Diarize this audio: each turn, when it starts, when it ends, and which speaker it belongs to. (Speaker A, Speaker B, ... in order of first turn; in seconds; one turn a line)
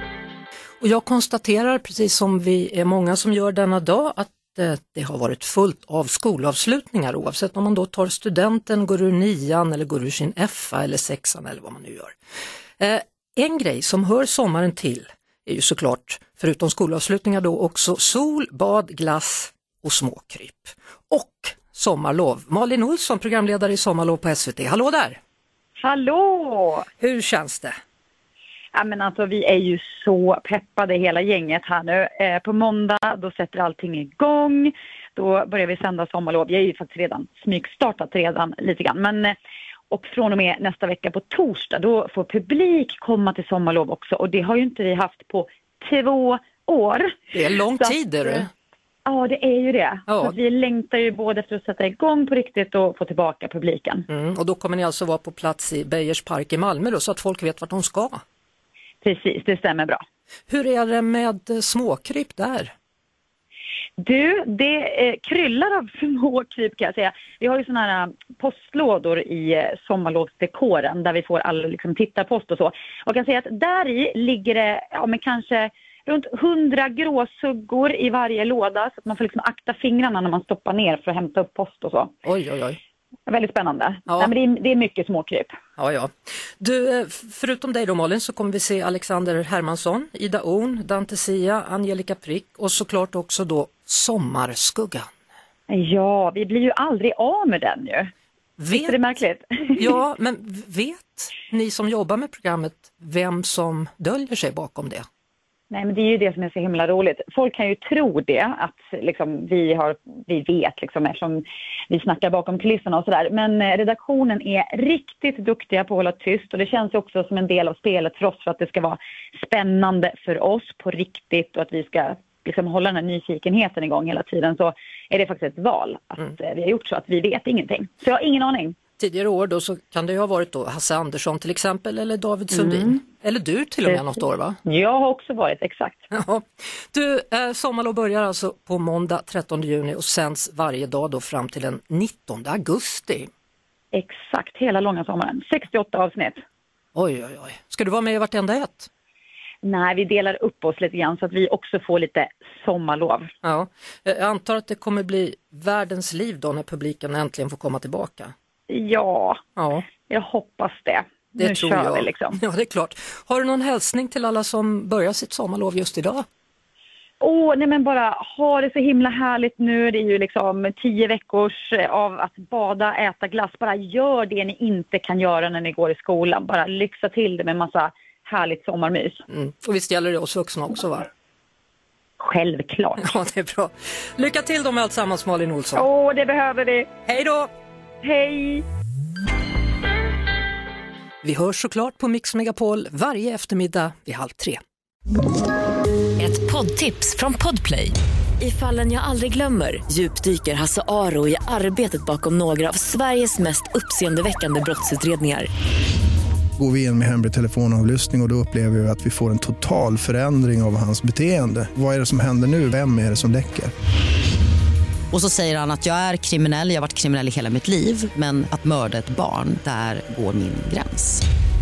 Speaker A: 0.8-12.1
Speaker A: 12.8-25.2
Speaker B: 25.8-26.9
Speaker A: 27.0-27.7
Speaker B: 28.7-39.4
Speaker B: 39.9-47.3
Speaker A: 47.3-48.5
Speaker B: 49.0-54.1
Speaker A: 50.1-50.4
Speaker A: 54.1-58.2
Speaker B: 59.0-60.0
Speaker A: 60.5-62.7
Speaker B: 64.0-82.1
Speaker A: 82.2-82.8
Speaker B: 83.3-85.5
Speaker A: 85.8-95.1
Speaker B: 95.7-98.1
Speaker A: 98.6-99.2
Speaker B: 98.7-99.8
Speaker A: 99.8-105.0
Speaker B: 105.7-128.8
Speaker A: 129.0-134.6
Speaker B: 132.5-133.0
Speaker B: 134.6-136.1
Speaker A: 136.1-143.3
Speaker B: 143.9-146.4
Speaker A: 146.9-148.9
Speaker B: 149.6-153.3
Speaker A: 153.4-158.3
Speaker B: 158.7-159.4
Speaker A: 159.6-159.8
Speaker B: 160.1-162.4
Speaker A: 161.4-166.2
Speaker B: 167.2-179.2
Speaker A: 179.3-181.1
Speaker B: 182.2-183.1
Speaker A: 183.0-185.8
Speaker B: 185.8-186.9
Speaker A: 187.1-187.5
Speaker B: 188.0-188.6
Speaker A: 191.2-194.6
Speaker C: 196.2-205.5
Speaker D: 206.6-213.7
Speaker E: 215.1-221.2